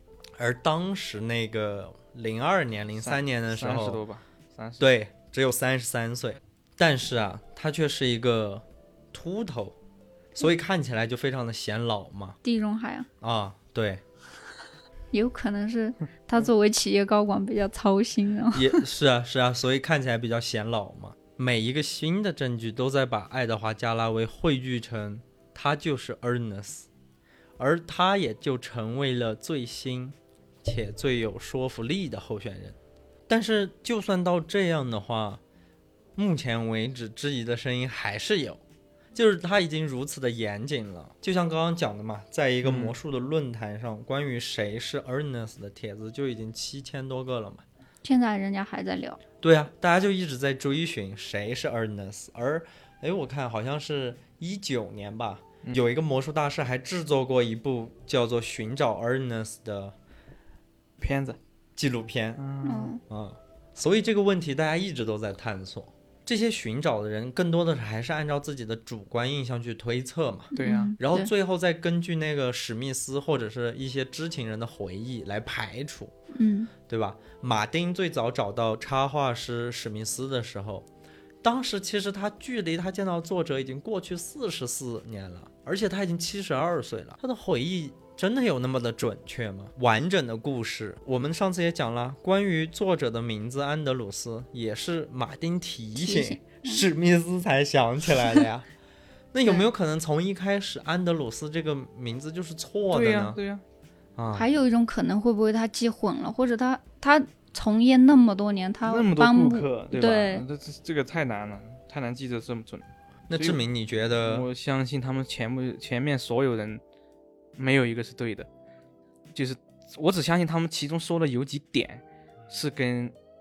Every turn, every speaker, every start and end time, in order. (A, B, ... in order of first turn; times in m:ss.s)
0:00.4-0:04.0 A
0:03.0-0:04.9 B
0:04.8-0:09.8 A
0:10.4-0:12.4 A
0:12.4-0:13.1 C
0:13.2-0:14.0 A
0:15.1-0:18.8 C
0:18.5-0:26.9 A
0:27.6-0:32.8 A
0:33.3-0:35.4 A
0:36.2-0:38.6 A
0:39.2-0:47.6 A
0:42.6-0:43.0 B
0:48.0-0:49.2 C
0:49.4-1:00.0 A
1:01.0-1:01.4 B
1:01.8-1:02.4 A
1:02.4-1:03.0 B
1:02.6-1:03.0 C
1:03.1-1:16.2 A
1:10.5-1:11.3 C
1:10.6-1:10.9 B
1:16.3-1:16.7 C
1:16.9-1:20.9 A
1:21.4-1:38.7 A
1:36.0-1:36.8 C
1:39.3-1:43.4 A
1:42.9-1:43.6 B
1:44.2-1:44.5 A
1:44.3-1:50.4 C
1:48.8-1:53.6 B
1:53.3-1:54.5 A
1:54.2-1:56.8 B
1:57.6-1:58.5 B
1:59.3-2:03.2 B